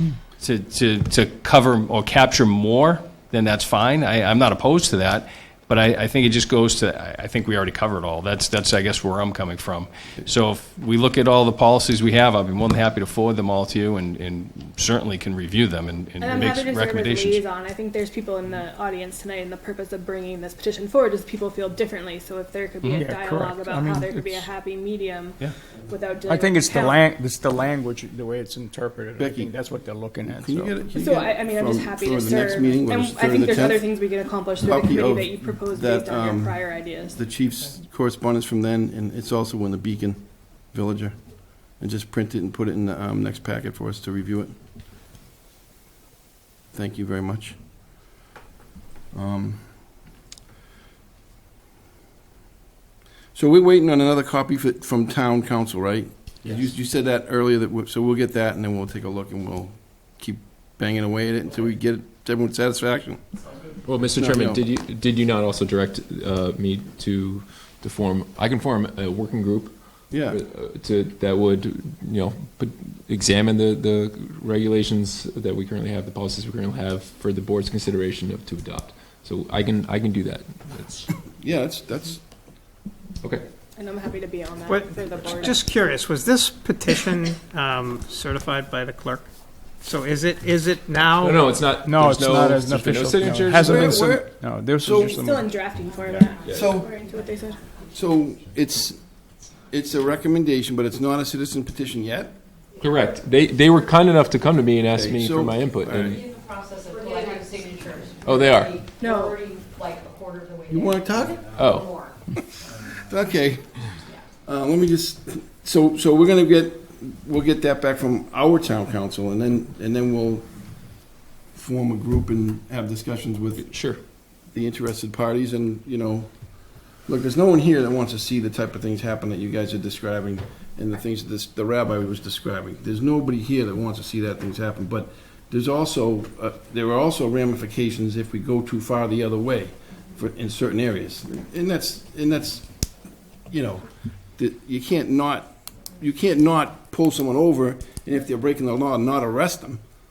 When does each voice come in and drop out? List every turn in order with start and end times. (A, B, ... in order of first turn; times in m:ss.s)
0:00.4-0:17.4 A
0:16.2-0:27.0 B
0:22.9-0:24.5 C
0:26.3-0:30.8 C
0:29.2-0:29.5 D
0:30.4-0:44.6 D
0:30.9-0:37.2 B
0:46.7-0:48.1 D
0:49.1-0:50.0 D
0:53.3-1:03.2 D
1:03.8-1:21.1 E
1:04.1-1:04.6 D
1:10.1-1:10.4 D
1:21.4-1:22.2 D
1:23.8-1:25.6 B
1:24.7-1:29.3 F
1:29.8-1:31.4 F
1:31.2-1:34.2 E
1:31.8-1:35.6 C
1:33.6-1:35.2 D
1:35.1-1:37.6 B
1:36.4-1:36.8 E
1:36.5-1:36.9 D
1:37.8-1:39.0 D
1:39.7-1:42.3 D
1:42.8-1:46.3 E
1:44.9-1:46.2 D
1:46.0-1:52.1 G
1:48.2-1:48.9 E
1:49.0-1:49.4 B
1:50.7-1:51.6 D
1:51.5-1:51.9 E
1:53.1-1:53.8 D
1:54.4-2:00.5 D
2:01.5-2:03.7 D
2:03.6-2:04.0 E
2:04.5-2:22.7 D
2:23.5-2:23.8 D
2:24.4-2:29.8 D